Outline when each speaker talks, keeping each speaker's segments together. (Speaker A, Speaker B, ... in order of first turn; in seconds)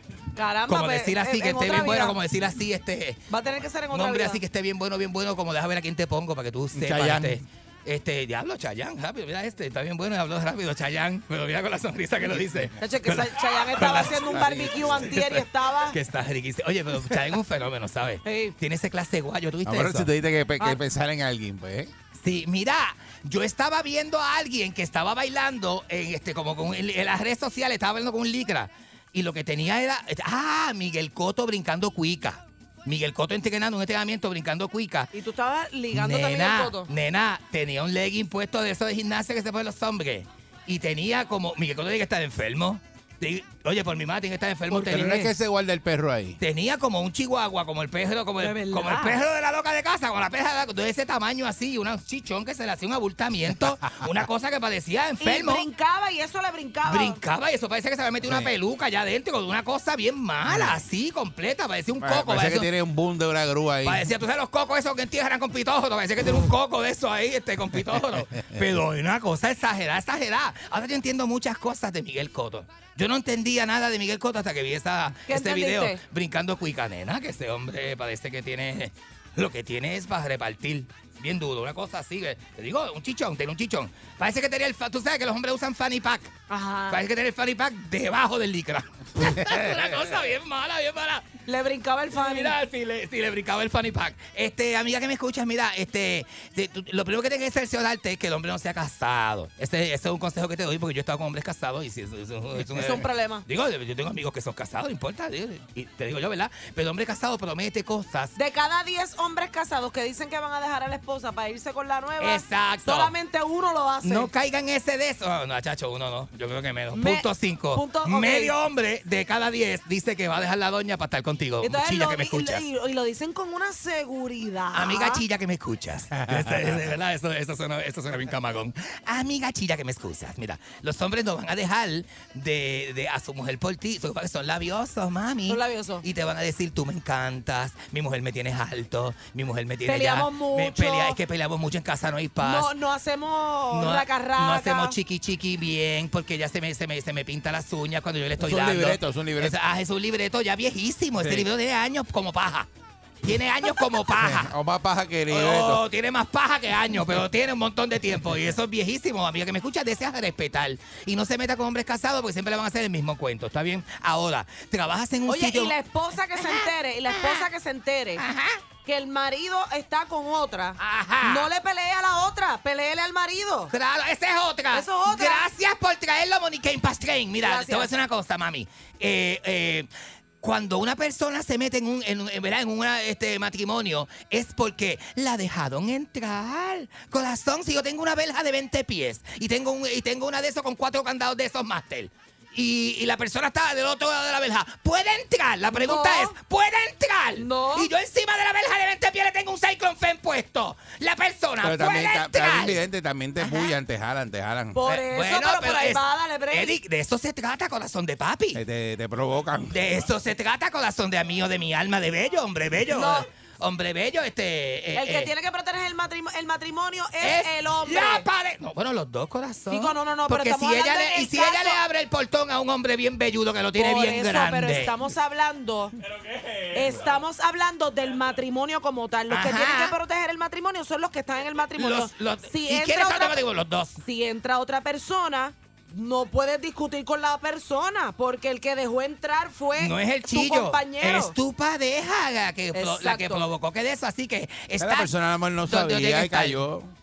Speaker A: 0.3-2.2, 3.3-4.4, 12.8-16.0, 18.2-18.5, 35.1-36.9, 48.4-49.2, 55.2-57.2, 75.3-76.0, 86.5-87.0, 91.5-92.5, 102.7-103.4, 108.3-114.3, 116.9-118.5, 121.6-125.2, 135.5-136.0, 139.8-141.2, 142.4-144.9, 165.3-168.2, 168.8-173.7, 174.7-175.5, 177.4-177.9, 195.7-196.4, 197.4-197.9, 204.7-206.8, 212.9-213.2, 214.9-218.2, 219.7-221.8, 223.7-225.9, 226.7-233.4, 234.0-241.3, 242.7-243.5
Speaker B: 0.7-3.2, 3.9-20.1, 22.2-35.1, 35.9-45.3, 46.4-55.6, 56.9-62.7, 63.8-86.3, 86.9-91.3, 92.1-108.3, 112.2-113.1, 114.0-122.6, 124.7-142.7, 143.7-152.7, 153.2-154.5, 155.3-165.7, 166.3-167.5, 168.2-168.6, 170.8-171.5, 173.7-179.9, 180.4-202.8, 204.8-208.6, 209.7-215.3, 217.2-225.0, 229.3-229.9, 231.8-234.0, 239.8-245.1, 245.7-246.6
Speaker C: 6.7-7.4, 14.2-15.0, 19.6-21.9, 44.7-46.4, 58.2-58.5, 60.5-60.8, 62.0-64.1, 89.4-89.7, 126.1-126.8, 148.4-149.6, 151.2-151.5, 154.1-155.8, 201.6-204.8, 208.5-209.8, 244.8-246.9